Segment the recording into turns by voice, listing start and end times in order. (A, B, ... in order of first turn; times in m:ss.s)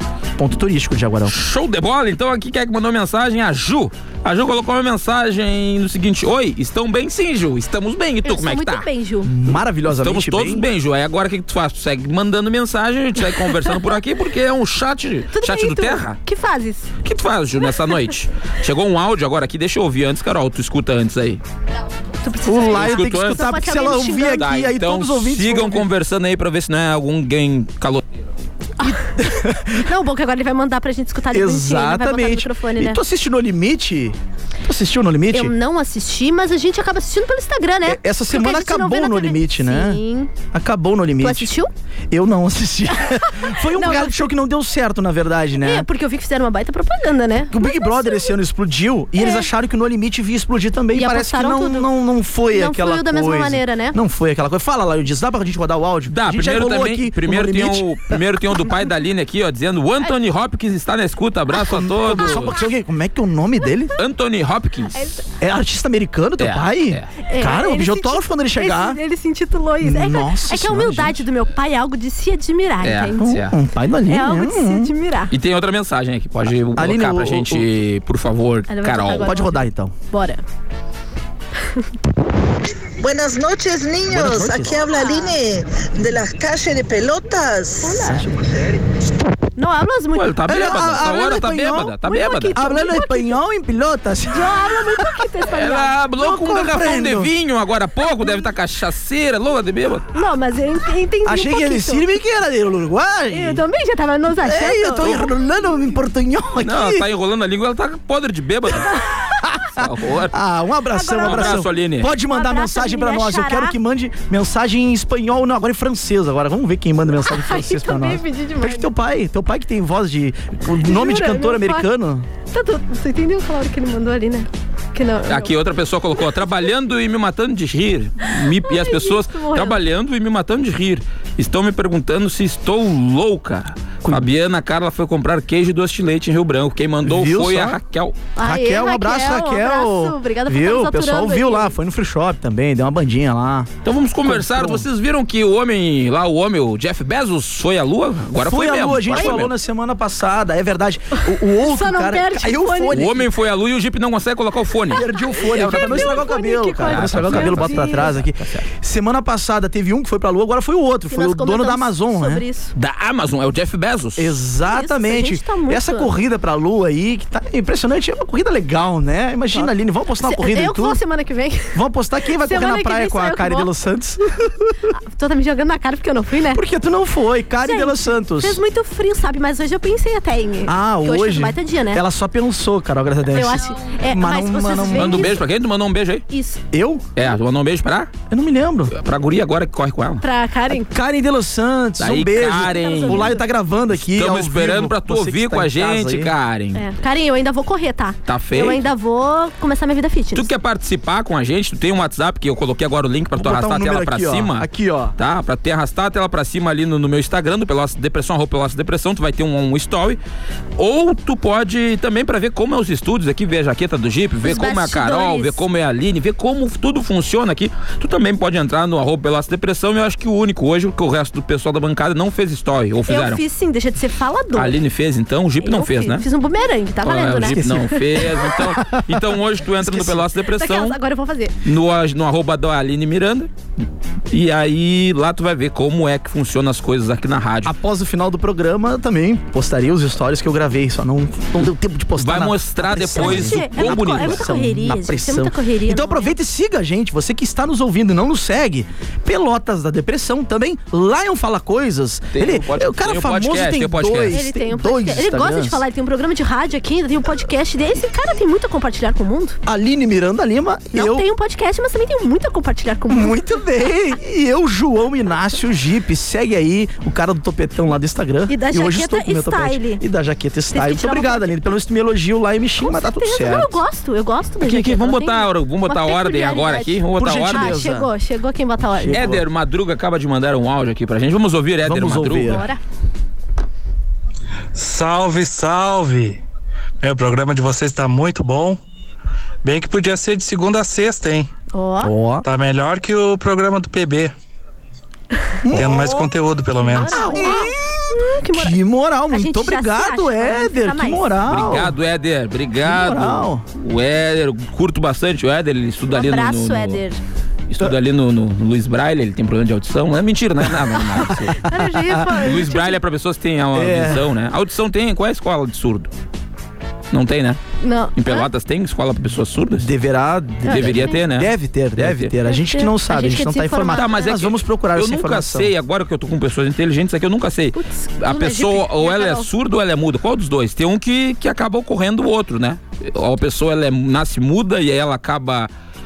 0:00.4-0:01.4 A
0:01.3-0:08.9 B
0:08.2-0:09.3 C
0:09.2-0:10.7 A
0:09.9-0:16.2 B
0:15.3-0:16.9 C
0:17.0-0:21.4 B
0:22.2-0:24.5 C
0:22.4-0:25.9 A
0:22.7-0:23.8 B
0:24.4-0:28.0 B
0:28.8-0:29.8 A
0:29.7-0:33.0 C
0:31.3-0:35.5 A
0:35.3-0:40.3 C
0:37.9-0:40.0 A
0:40.5-0:41.5 A
0:41.2-0:41.7 C
0:42.1-0:45.9 A
0:43.5-0:44.3 C
0:45.6-0:48.3 C
0:47.5-0:58.2 A
0:49.2-0:49.5 C
0:51.0-0:51.9 C
0:52.5-0:54.0 C
0:56.1-1:02.6 B
1:01.6-1:04.0 A
1:04.0-1:05.2 B
1:04.9-1:05.2 C
1:05.4-1:09.0 A
1:06.4-1:07.1 B
1:07.3-1:13.4 C
1:09.8-1:11.2 A
1:12.8-1:13.5 B
1:13.2-1:14.9 A
1:14.1-1:15.3 C
1:15.3-1:19.3 B
1:16.8-1:17.7 A
1:18.7-1:20.4 C
1:19.2-1:19.9 A
1:23.0-1:28.0 D
1:24.1-1:24.8 A
1:24.7-1:25.4 C
1:27.8-1:28.2 C
1:28.0-1:28.7 A
1:29.6-1:30.4 C
1:30.2-1:32.6 B
1:30.5-1:32.0 A
1:32.0-1:33.4 C
1:32.5-1:35.1 A
1:34.3-1:36.0 C
1:35.5-1:40.1 B
1:36.2-1:37.3 A
1:40.1-1:42.0 C
1:41.2-1:43.6 A
1:43.3-1:45.1 C
1:44.4-1:47.1 A
1:46.6-1:49.0 B
1:48.8-1:49.1 C
1:49.6-2:02.3 A
1:49.8-1:50.4 B
1:50.9-1:51.6 C
1:51.2-1:52.1 B
1:52.3-1:53.8 C
1:57.2-1:58.9 C
2:00.8-2:01.9 C
2:02.5-2:05.5 C
2:05.3-2:18.2 B
2:08.3-2:09.8 C
2:17.0-2:17.8 A
2:18.4-2:21.7 C
2:18.4-2:23.7 A
2:23.8-2:29.5 B
2:24.2-2:24.9 A
2:28.4-2:33.3 A
2:31.6-2:33.0 C
2:32.9-2:36.3 B
2:34.9-2:42.4 A
2:35.5-2:38.2 C
2:36.8-2:38.6 B
2:41.1-2:42.7 C
2:42.8-2:44.4 B
2:44.2-2:51.0 A
2:44.7-2:46.1 C
2:50.2-2:51.8 C
2:51.7-2:54.9 A
2:52.4-2:53.7 C
2:55.1-2:56.6 C
2:56.5-2:58.6 A
2:57.6-3:02.0 C
3:00.7-3:05.4 A
3:03.3-3:05.4 C
3:04.9-3:06.2 B
3:06.3-3:06.6 C
3:06.7-3:07.1 A
3:07.2-3:08.1 B
3:08.3-3:08.9 A
3:08.9-3:10.2 B
3:10.2-3:10.9 C
3:10.7-3:16.3 A
3:12.0-3:13.4 B
3:12.6-3:13.4 C
3:13.9-3:16.8 B
3:16.8-3:20.5 C
3:18.3-3:18.8 B
3:20.4-3:30.2 B
3:23.4-3:25.2 A
3:30.8-3:43.4 B
3:34.4-3:35.6 C
3:43.1-3:44.8 C
3:44.6-3:46.2 B
3:45.6-3:48.3 C
3:47.0-3:51.0 B
3:47.4-3:49.2 A
3:49.8-3:50.3 A
3:50.6-3:51.5 C
3:51.6-3:53.5 B
3:54.3-3:57.7 B
3:57.6-4:15.8 A
4:02.2-4:04.5 B
4:03.1-4:06.4 C
4:12.3-4:14.4 B
4:14.3-4:19.6 C
4:19.7-4:21.3 A
4:20.9-4:23.5 C
4:23.1-4:33.8 A
4:28.5-4:30.0 C
4:30.7-4:31.5 C
4:32.8-4:39.3 C
4:34.6-4:37.9 B
4:37.2-4:38.1 A
4:38.9-4:39.4 A
4:39.1-4:42.6 B
4:41.8-4:42.6 A
4:42.5-4:42.8 C
4:44.7-4:46.4 E
4:47.0-4:48.8 E
4:49.6-4:51.5 E
4:51.7-4:52.1 C
4:52.0-4:52.5 A
4:52.4-4:54.3 E
4:55.6-4:56.3 A
4:55.7-4:57.2 E
4:56.8-4:58.8 C
4:56.9-5:02.0 A
4:59.3-5:01.3 C
5:01.5-5:07.0 B
5:02.8-5:03.6 A
5:06.1-5:07.2 C
5:07.7-5:11.6 B
5:11.5-5:13.0 C
5:11.7-5:12.4 A
5:12.4-5:16.1 B
5:13.7-5:14.3 A
5:17.1-5:17.6 B
5:17.8-5:18.5 C
5:18.2-5:19.9 B
5:19.8-5:25.7 A
5:20.6-5:21.2 C
5:20.7-5:22.3 B
5:22.5-5:24.4 C
5:23.9-5:35.7 B
5:27.8-5:29.5 C